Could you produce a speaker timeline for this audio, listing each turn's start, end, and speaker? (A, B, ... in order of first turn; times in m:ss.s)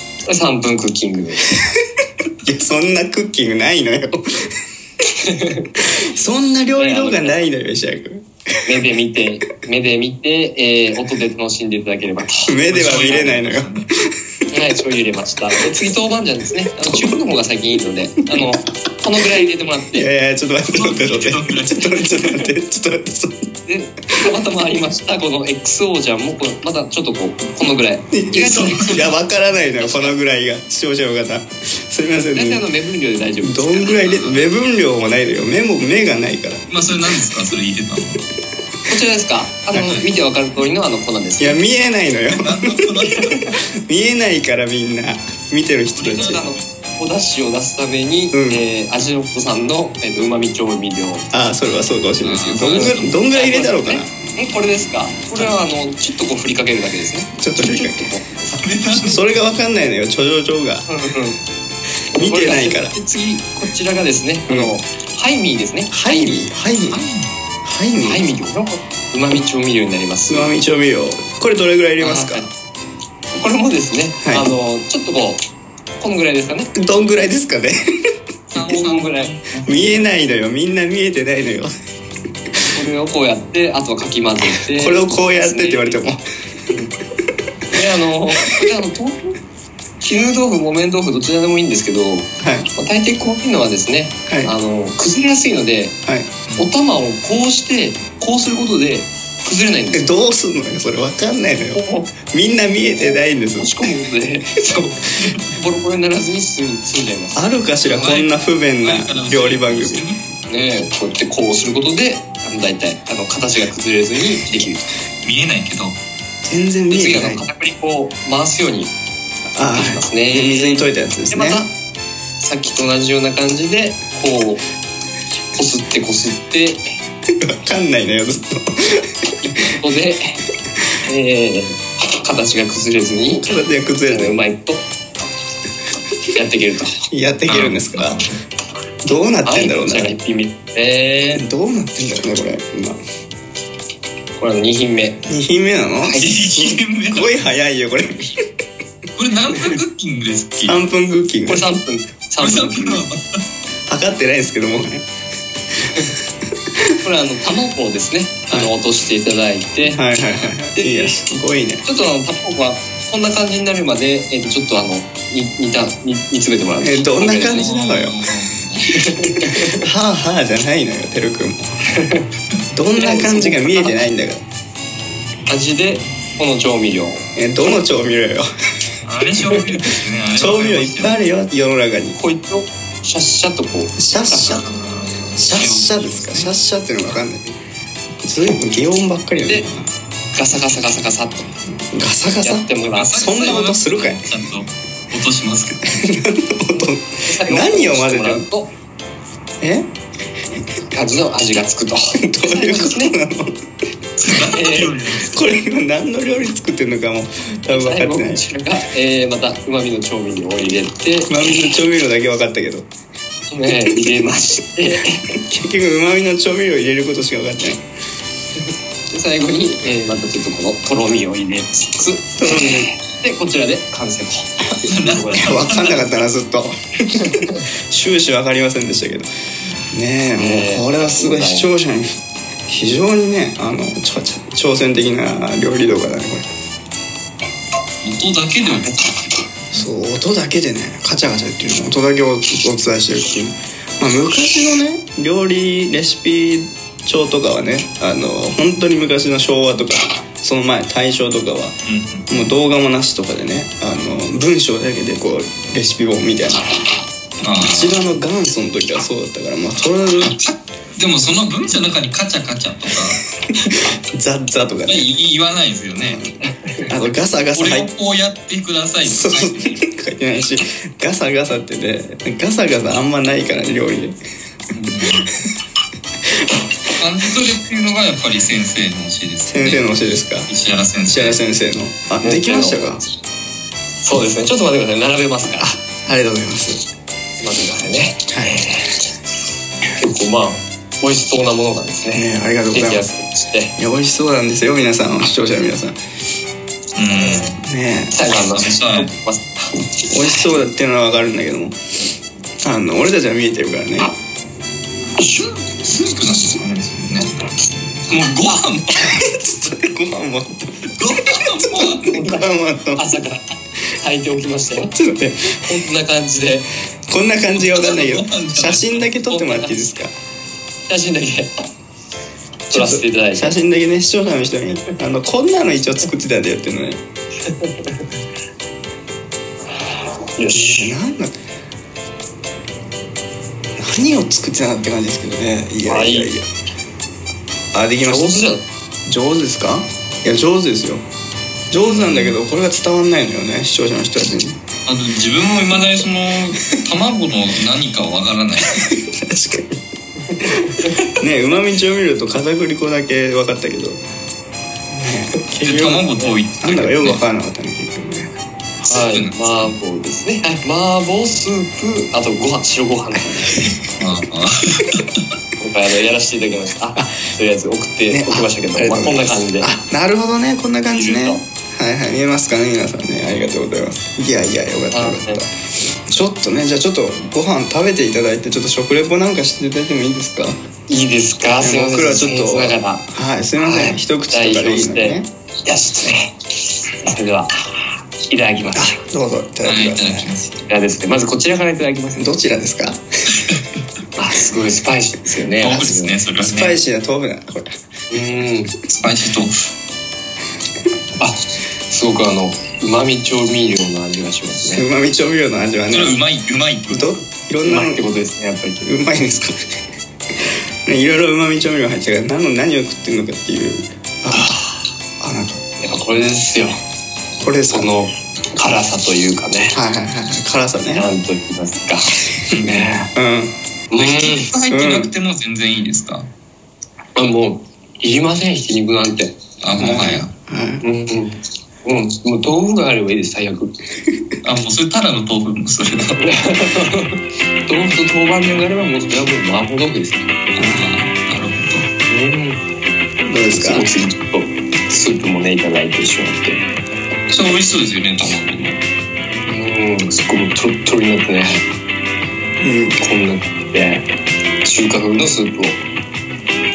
0:00.2-0:01.5 A
0:02.4-0:04.5 B
0:05.2-0:05.7 A
0:05.8-0:08.2 B
0:06.8-0:07.5 A
0:08.6-0:12.5 A
0:12.4-0:14.1 B
0:12.6-0:13.9 C
0:14.5-0:20.1 A
0:19.9-0:23.4 B
0:20.6-0:22.3 C
0:23.6-0:29.0 A
0:28.1-0:32.6 B
0:28.4-0:29.1 C
0:29.7-0:30.1 A
0:32.2-0:34.1 A
0:33.4-0:36.7 B
0:34.0-0:34.5 C
0:36.7-0:38.2 C
0:38.9-0:41.6 A
0:39.7-0:40.0 B
0:41.4-0:43.1 B
0:42.3-0:43.5 C
0:43.8-0:46.4 B
0:45.9-0:46.6 C
0:46.1-0:51.3 A
0:48.3-0:48.6 B
0:51.3-0:54.1 B
0:52.2-0:58.6 A
0:52.4-0:53.1 C
0:57.3-0:58.1 B
0:58.5-0:59.3 C
0:58.9-1:00.8 B
1:00.9-1:01.4 A
1:02.1-1:03.0 B
1:02.1-1:06.5 A
1:05.9-1:07.1 B
1:06.9-1:07.3 C
1:07.6-1:08.2 B
1:08.0-1:10.5 A
1:10.3-1:12.5 B
1:12.0-1:12.5 A
1:13.3-1:15.4 A
1:14.2-1:14.5 B
1:16.0-1:16.7 A
1:16.7-1:17.8 B
1:18.5-1:20.1 C
1:18.5-1:19.3 A
1:19.6-1:21.7 B
1:22.7-1:26.0 A
1:24.6-1:26.2 B
1:27.7-1:29.4 A
1:30.0-1:35.9 A
1:32.4-1:32.7 B
1:34.3-1:34.5 B
1:36.0-1:36.3 B
1:36.6-1:40.1 A
1:39.9-1:43.8 B
1:41.8-1:42.1 A
1:43.0-1:47.5 A
1:47.3-1:50.0 B
1:47.8-1:50.4 C
1:50.5-1:54.9 A
1:55.2-1:56.0 C
1:56.4-1:57.4 B
1:56.9-1:58.9 A
1:59.5-2:01.6 B
1:59.7-2:01.7 A
2:02.4-2:04.6 A
2:05.5-2:06.8 A
2:07.4-2:09.1 B
2:09.4-2:10.4 A
2:11.1-2:13.5 A
2:13.4-2:14.4 B
2:14.1-2:14.8 A
2:16.3-2:16.9 A
2:17.1-2:18.2 B
2:17.5-2:18.3 C
2:19.0-2:20.1 B
2:19.4-2:21.4 A
2:21.3-2:23.0 B
2:24.4-2:25.2 A
2:25.2-2:28.3 B
2:26.0-2:26.6 A
2:26.1-2:27.4 C
2:29.1-2:30.8 C
2:30.6-2:31.7 B
2:31.5-2:33.0 A
2:32.4-2:33.2 C
2:33.9-2:35.0 B
2:37.0-2:40.0 A
2:39.8-2:41.8 B
2:40.2-2:40.5 C
2:40.7-2:41.2 A
2:41.8-2:47.7 A
2:46.8-2:48.1 B
2:47.4-2:49.2 C
2:48.9-2:49.8 A
2:49.5-2:51.7 B
2:51.9-2:52.3 A
2:52.7-2:54.4 B
2:53.0-2:54.0 A
2:55.5-2:57.2 A
2:57.4-2:58.5 B
2:59.0-3:01.2 C
2:59.4-2:59.9 A
3:00.4-3:02.2 B
3:02.2-3:04.8 A
3:04.0-3:04.7 B
3:04.7-3:06.6 C
3:05.4-3:07.4 B
3:08.2-3:09.9 B
3:10.3-3:11.5 A
3:11.8-3:14.3 B
3:12.4-3:13.6 A
3:12.9-3:16.1 C
3:15.9-3:18.5 B
3:17.2-3:18.7 A
3:19.6-3:19.9 B
3:20.9-3:23.2 A
3:22.1-3:23.5 B
3:24.2-3:25.4 C
3:24.4-3:25.0 A
3:25.2-3:28.4 B
3:27.7-3:31.4 A
3:31.3-3:32.9 B
3:33.5-3:35.3 A
3:35.3-3:37.8 B
3:39.1-3:45.9 A
3:42.4-3:42.9 B
3:44.6-3:49.3 B
3:44.9-3:46.2 C
3:47.2-3:47.6 A
3:49.9-3:56.5 B
3:50.4-3:51.7 A
3:58.0-3:59.4 C
3:59.7-4:11.7 B
4:11.8-4:12.5 C
4:12.3-4:16.7 B
4:17.4-4:18.0 C
4:17.6-4:20.3 B
4:20.2-4:23.2 C
4:23.6-4:25.1 B
4:24.8-4:26.2 C
4:26.0-4:26.3 B
4:26.5-4:26.9 A
4:26.9-4:27.9 B
4:27.5-4:29.8 C
4:29.0-4:34.2 B
4:34.7-4:35.3 C
4:36.9-4:41.4 C
4:39.5-4:40.5 B
4:41.0-4:43.0 B
4:42.2-4:43.0 A
4:44.0-4:45.7 A
4:45.6-4:46.8 B
4:47.4-4:49.0 A
4:48.3-4:48.7 B
4:50.0-4:53.7 A
4:52.1-4:53.1 B
4:53.8-4:56.0 B
4:56.9-4:57.6 C
4:57.1-4:57.5 A
4:57.5-4:58.1 B
4:58.1-5:00.6 A
4:58.3-4:59.1 C
5:00.1-5:01.8 B
5:02.6-5:04.1 B
5:05.2-5:07.4 C
5:08.1-5:09.2 C
5:09.0-5:10.9 B
5:11.0-5:12.2 C
5:11.4-5:13.0 B
5:13.0-5:14.9 A
5:14.9-5:15.7 B
5:15.6-5:16.7 A
5:17.1-5:20.1 B
5:17.5-5:19.1 C
5:19.3-5:20.0 A
5:20.9-5:21.5 A
5:22.7-5:27.0 B
5:22.7-5:23.6 A
5:27.4-5:28.0 A
5:30.4-5:31.0 A
5:30.5-5:31.4 B
5:33.8-5:36.5 B
5:35.8-5:36.3 A
5:37.7-5:38.5 B
5:38.1-5:38.6 A
5:39.0-5:41.0 B
5:41.7-5:44.6 B
5:41.8-5:42.4 C
5:44.9-5:48.9 C
5:48.8-5:49.8 B
5:50.3-5:50.9 A
5:50.4-5:54.0 B
5:54.9-5:56.1 B
5:55.6-5:57.2 C
5:56.6-5:58.3 B
5:58.8-5:59.7 C
5:58.8-6:03.7 A
6:04.0-6:05.3 C
6:05.6-6:09.7 A
6:08.1-6:15.5 B
6:10.9-6:11.4 A
6:14.9-6:15.4 A
6:16.1-6:20.6 B
6:20.9-6:23.0 A
6:21.6-6:25.3 B
6:23.6-6:26.4 A
6:27.0-6:29.0 A
6:28.7-6:30.3 B
6:29.6-6:30.6 C
6:30.7-6:32.3 A
6:32.2-6:33.0 B
6:33.4-6:33.6 C
6:34.2-6:36.2 A
6:35.6-6:36.8 C
6:36.4-6:37.7 B
6:38.1-6:38.7 A
6:38.9-6:39.6 C
6:41.2-6:44.8 A
6:44.7-6:46.2 B
6:45.9-6:47.2 C
6:46.9-6:48.0 B
6:47.6-6:48.8 A
6:48.8-6:49.6 B
6:50.8-6:54.5 B
6:54.3-6:54.8 A
6:55.2-6:55.6 B
6:55.8-6:56.8 A
6:57.4-6:57.9 B
6:57.7-6:59.8 A
6:59.7-7:01.1 B
7:00.9-7:03.1 A
7:02.5-7:03.5 B
7:03.9-7:04.5 A
7:04.0-7:06.3 C
7:04.7-7:05.1 B
7:07.2-7:09.4 A
7:09.6-7:10.3 C
7:09.8-7:10.8 B
7:10.8-7:13.8 A
7:14.4-7:16.2 C
7:16.2-7:20.3 A
7:20.6-7:21.9 C
7:20.6-7:20.9 B
7:22.1-7:22.6 A
7:23.2-7:23.9 B
7:23.5-7:26.6 A
7:27.3-7:28.8 C
7:29.4-7:31.6 A
7:32.6-7:33.0 B
7:33.0-7:34.1 A
7:34.6-7:35.8 A